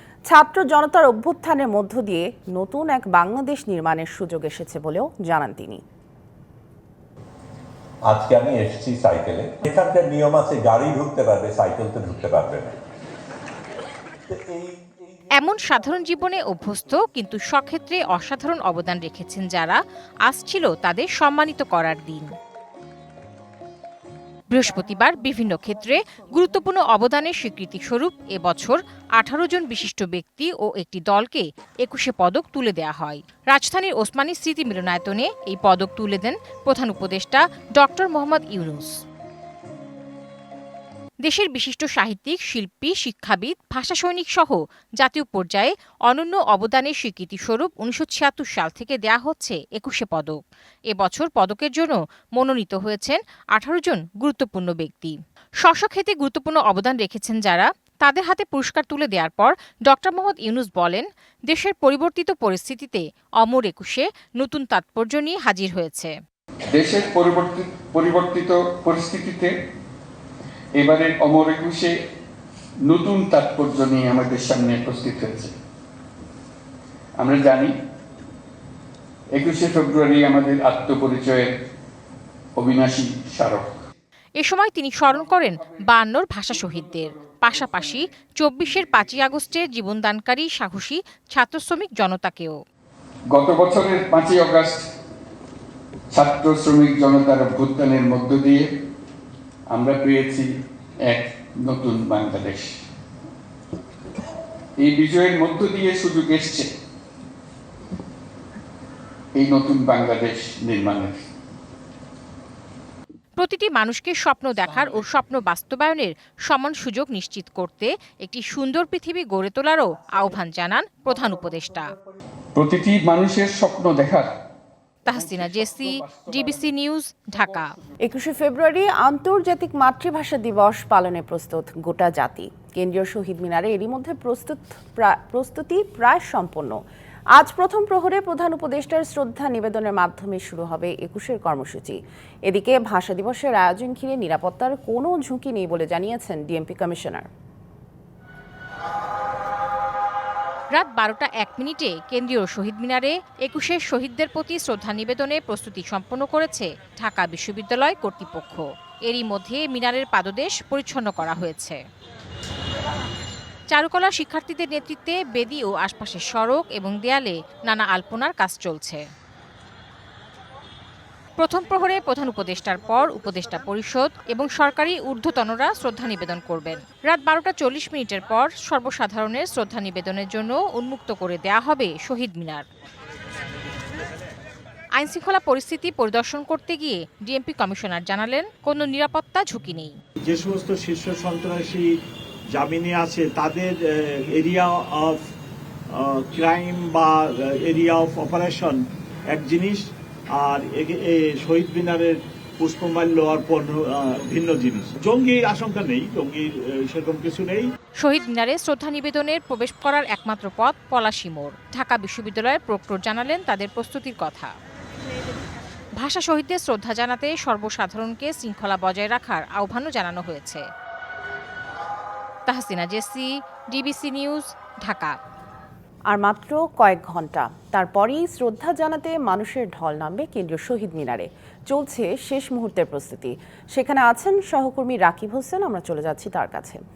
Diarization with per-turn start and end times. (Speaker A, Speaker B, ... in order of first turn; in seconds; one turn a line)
Speaker A: 0.3-5.8
Speaker B: 8.1-12.8
Speaker C: 15.3-22.3
Speaker C: 24.5-39.0
Speaker C: 41.2-50.4
Speaker C: 50.9-66.1
Speaker D: 66.7-69.5
Speaker D: 70.8-71.9
Speaker D: 72.9-75.5
Speaker D: 77.2-77.8
Speaker D: 79.3-81.5
Speaker D: 82.6-83.8
Speaker C: 84.4-92.6
Speaker D: 93.3-94.8
Speaker D: 96.1-98.7
Speaker D: 99.7-100.5
Speaker D: 101.1-102.8
Speaker D: 104.8-106.7
Speaker D: 109.3-111.2
Speaker C: 113.4-121.9
Speaker D: 122.6-124.3
Speaker C: 125.1-127.8
Speaker D: 125.1-126.3
Speaker A: 128.0-136.8
Speaker A: 137.3-147.3
Speaker C: 150.8-161.8
Speaker C: 163.7-169.0
Speaker C: 171.4-182.6
Speaker C: 185.0-190.0
Speaker E: 190.2-191.9
Speaker E: 192.5-195.2
Speaker E: 195.9-207.7
Speaker C: 208.0-214.5
Speaker C: 216.0-220.7
Speaker C: 222.5-225.2
Speaker A: 226.1-236.8